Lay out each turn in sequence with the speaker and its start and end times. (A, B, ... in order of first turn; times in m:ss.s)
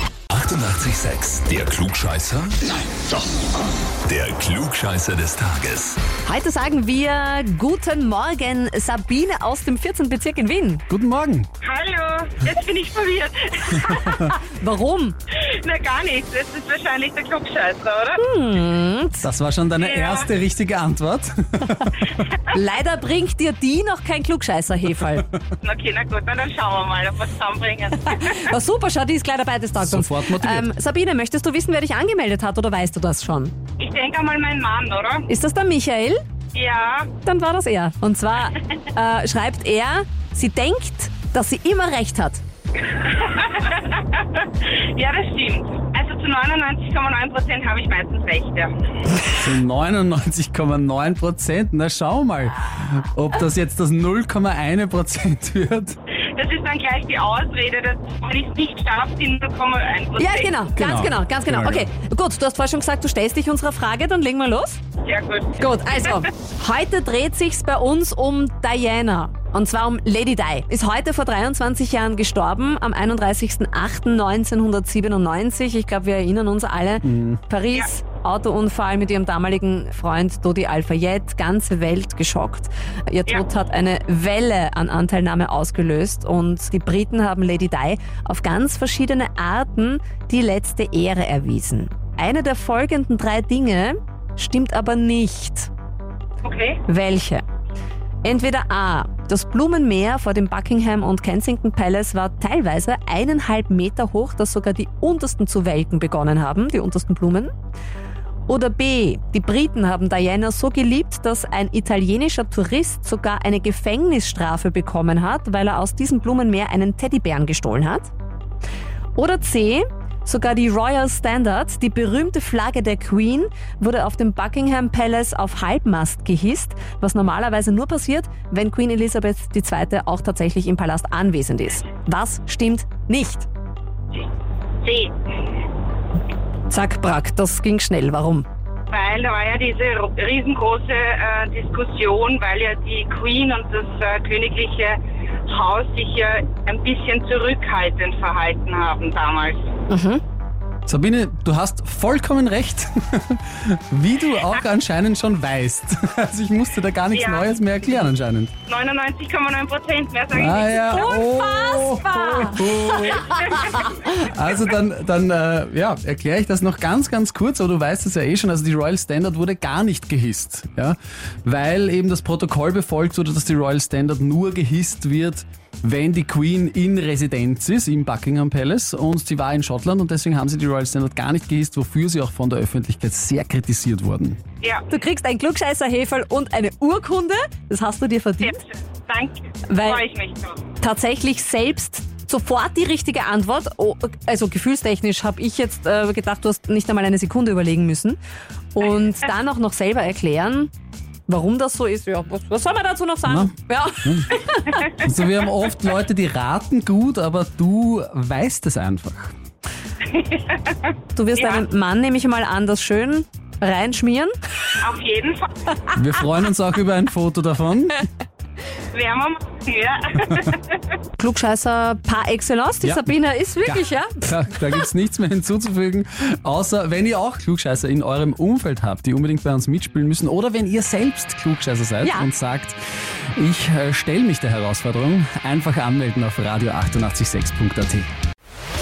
0:00.3-0:02.8 A
0:04.0-0:06.0 A
0:06.2-0:10.8 B
0:10.9-0:11.5 C
0:11.6-0:14.3 D
0:14.1-0:15.2 B
0:15.4-0:18.2 D
0:18.2-0:19.3 B
0:19.2-0:22.2 C
0:19.8-0:20.3 D
0:22.5-0:25.3 B
0:25.6-0:28.5 D
0:28.1-0:33.5 B
0:29.8-0:30.7 C
0:33.8-0:35.3 D
0:35.3-0:36.2 B
0:36.5-0:37.1 D
0:37.2-0:42.4 B
0:42.9-0:48.7 D
0:49.2-0:56.0 C
0:56.3-1:00.5 D
1:00.2-1:04.8 B
1:00.7-1:01.9 C
1:05.0-1:06.1 D
1:05.6-1:35.7 B
1:17.0-1:17.4 C
1:36.4-1:36.8 D
1:36.9-1:37.4 B
1:38.2-1:47.5 B
1:48.5-1:58.1 B
1:59.2-2:13.5 B
2:14.8-2:15.2 D
2:16.7-2:18.4 B
2:18.9-2:29.6 D
2:29.9-2:30.2 B
2:30.9-2:38.5 C
2:37.1-2:37.5 D
2:38.7-2:41.1 D
2:40.3-3:04.4 C
2:40.9-2:43.6 B
3:04.6-3:04.9 D
3:04.9-3:08.6 B
3:08.4-3:10.6 D
3:09.7-3:10.0 B
3:10.8-3:18.2 B
3:18.7-3:20.7 B
3:21.3-3:25.0 B
3:23.2-3:24.3 C
3:24.8-3:29.3 C
3:30.1-3:31.6 D
3:31.1-3:34.3 B
3:34.8-3:35.5 D
3:35.9-3:38.0 C
3:38.9-3:40.9 D
3:41.2-3:44.8 B
3:42.8-3:43.1 C
3:43.6-3:52.8 C
3:52.0-3:52.3 B
3:53.3-3:58.1 C